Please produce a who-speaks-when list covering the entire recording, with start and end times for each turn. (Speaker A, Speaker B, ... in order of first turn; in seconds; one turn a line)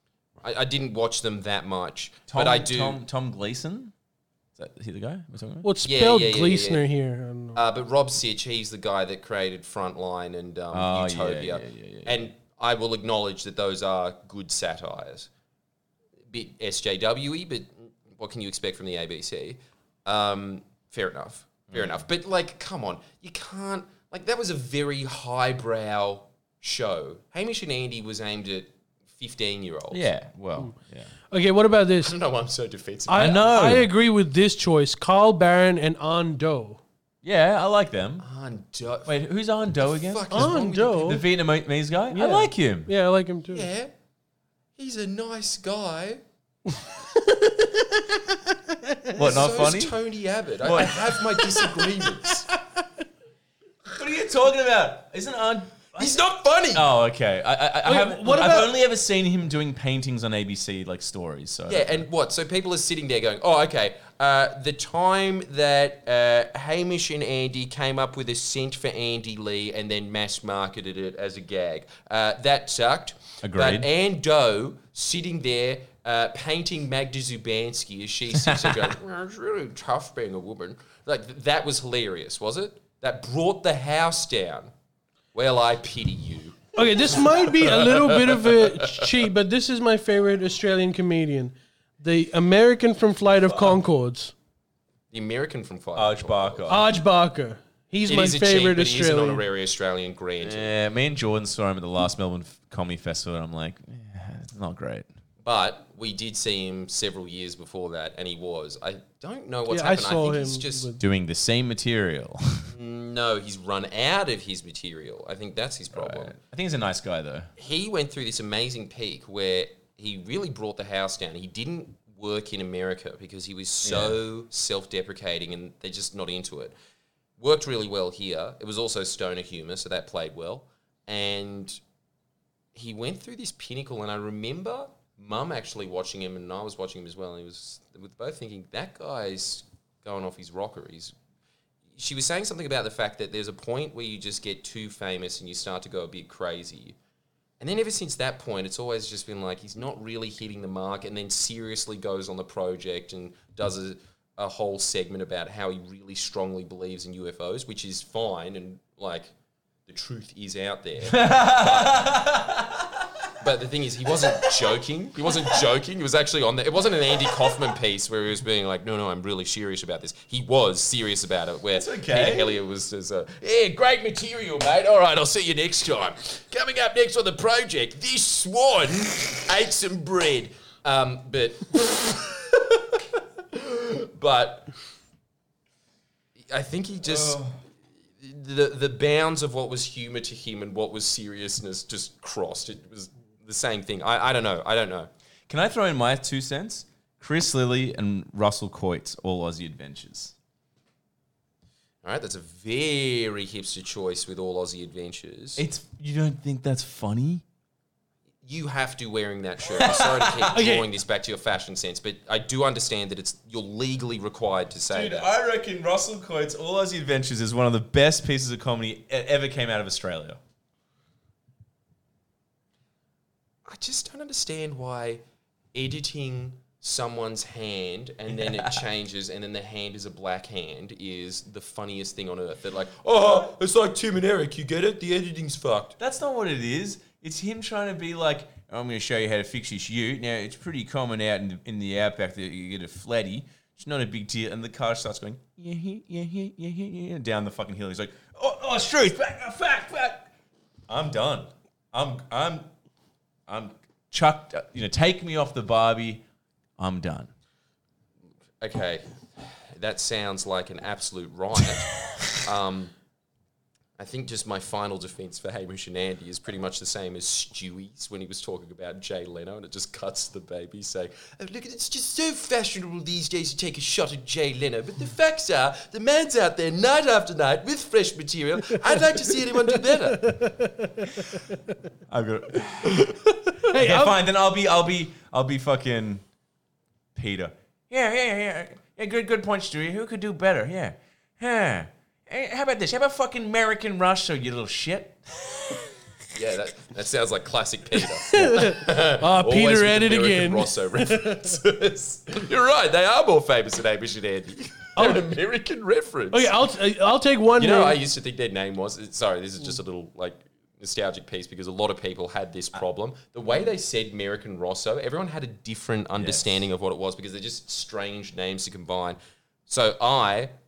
Speaker A: 0.4-3.0
Speaker B: 2.3-3.9
Speaker B: 4.5-5.7
Speaker C: 5.6-7.6
Speaker A: 5.8-6.8
Speaker A: 7.5-15.3
Speaker B: 10.7-12.2
Speaker A: 16.3-30.1
Speaker B: 29.9-31.1
Speaker C: 31.3-32.1
Speaker A: 32.0-33.7
Speaker C: 33.1-36.8
Speaker B: 33.1-33.9
Speaker B: 37.2-38.2
Speaker A: 38.2-39.1
Speaker B: 39.0-42.9
Speaker A: 39.8-41.1
Speaker C: 40.3-41.2
Speaker C: 42.1-43.7
Speaker A: 43.5-43.9
Speaker A: 44.8-46.2
Speaker C: 47.2-49.2
Speaker B: 49.1-50.0
Speaker A: 49.1-52.5
Speaker B: 50.6-51.1
Speaker C: 51.4-51.9
Speaker B: 53.9-56.2
Speaker A: 56.0-56.9
Speaker B: 56.7-62.1
Speaker C: 57.8-58.7
Speaker A: 61.7-84.7
Speaker B: 73.4-73.9
Speaker B: 78.3-78.8
Speaker A: 85.3-89.1
Speaker C: 86.7-94.3
Speaker B: 93.5-93.8
Speaker A: 95.1-96.8
Speaker B: 96.0-96.9
Speaker C: 96.7-99.4
Speaker A: 98.1-100.7
Speaker B: 100.4-105.1
Speaker A: 105.4-110.9
Speaker C: 109.7-111.0
Speaker B: 111.0-112.7
Speaker A: 112.7-116.3
Speaker B: 115.9-117.5
Speaker A: 117.6-126.7
Speaker B: 123.8-124.2
Speaker A: 127.4-131.8
Speaker A: 132.7-141.1
Speaker A: 142.0-146.9
Speaker A: 147.6-159.3
Speaker A: 159.9-162.2
Speaker B: 161.1-163.3
Speaker A: 163.4-184.7
Speaker B: 164.1-164.7
Speaker B: 171.7-172.6
Speaker A: 186.5-187.4
Speaker B: 187.1-187.6
Speaker A: 188.2-195.1
Speaker B: 195.5-200.3
Speaker A: 202.0-205.6
Speaker B: 205.6-207.4
Speaker A: 208.4-215.3
Speaker B: 209.8-210.6
Speaker C: 210.5-210.9
Speaker B: 214.9-220.4
Speaker A: 223.6-225.2
Speaker A: 225.7-236.0
Speaker B: 236.0-250.3
Speaker B: 250.9-252.7
Speaker B: 253.5-256.2
Speaker B: 256.8-257.3
Speaker A: 258.6-262.9
Speaker A: 264.0-280.4
Speaker C: 279.7-281.6
Speaker B: 282.1-286.2
Speaker C: 283.6-284.2
Speaker B: 287.1-295.9
Speaker A: 296.3-306.6
Speaker C: 298.3-301.6
Speaker C: 305.0-305.2
Speaker C: 306.3-308.0
Speaker A: 307.6-320.5
Speaker B: 316.1-316.6